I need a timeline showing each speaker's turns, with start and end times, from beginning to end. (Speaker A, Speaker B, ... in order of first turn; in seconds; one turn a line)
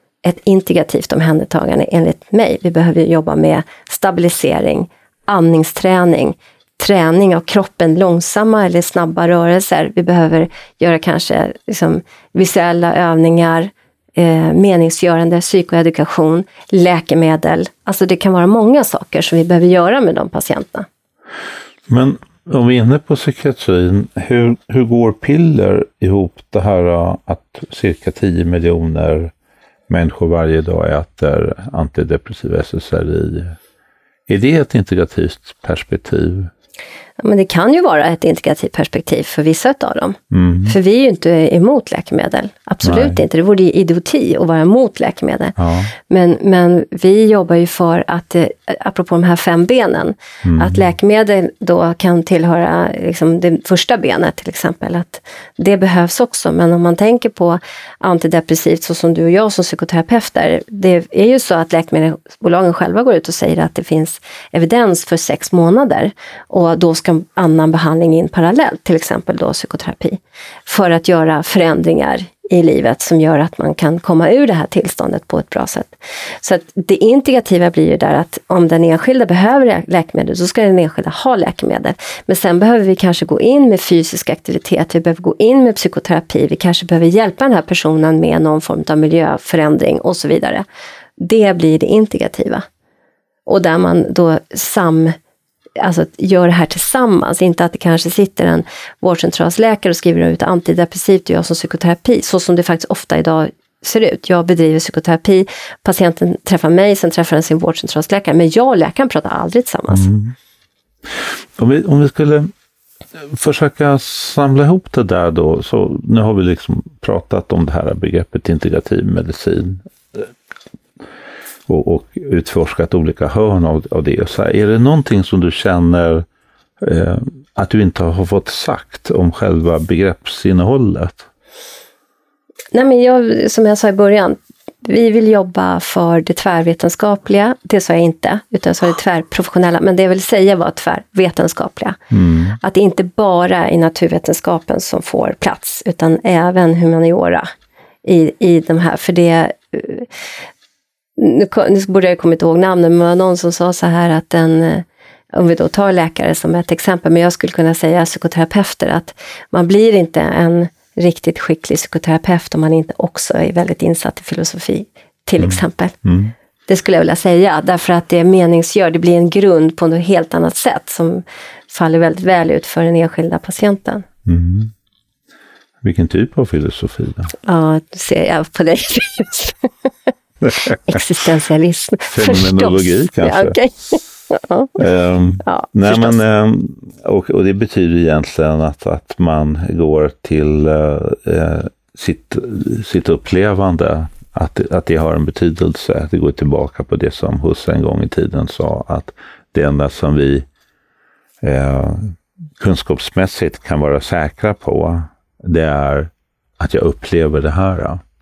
Speaker A: 0.2-20.9
Speaker B: 21.9-29.3
Speaker B: 29.9-33.6
Speaker B: 34.3-36.5
Speaker A: 37.2-45.5
Speaker B: 40.3-40.8
Speaker B: 42.8-43.2
Speaker B: 45.6-45.9
Speaker A: 46.1-90.6
Speaker B: 50.4-50.8
Speaker A: 91.2-92.6
Speaker A: 93.5-95.2
Speaker A: 95.8-110.1
Speaker B: 109.9-110.3
Speaker B: 111.1-112.5
Speaker B: 113.2-120.3
Speaker B: 121.7-126.2
Speaker B: 126.8-131.2
Speaker A: 132.7-142.0
Speaker B: 142.1-142.6
Speaker A: 142.6-147.5
Speaker A: 148.0-150.1
Speaker A: 151.2-166.0
Speaker B: 165.4-166.3
Speaker A: 166.7-174.1
Speaker B: 174.2-174.7
Speaker B: 175.8-177.3
Speaker A: 177.4-179.6
Speaker A: 180.6-184.8
Speaker B: 182.1-183.5
Speaker B: 184.8-200.4
Speaker A: 185.4-186.2
Speaker B: 201.4-208.0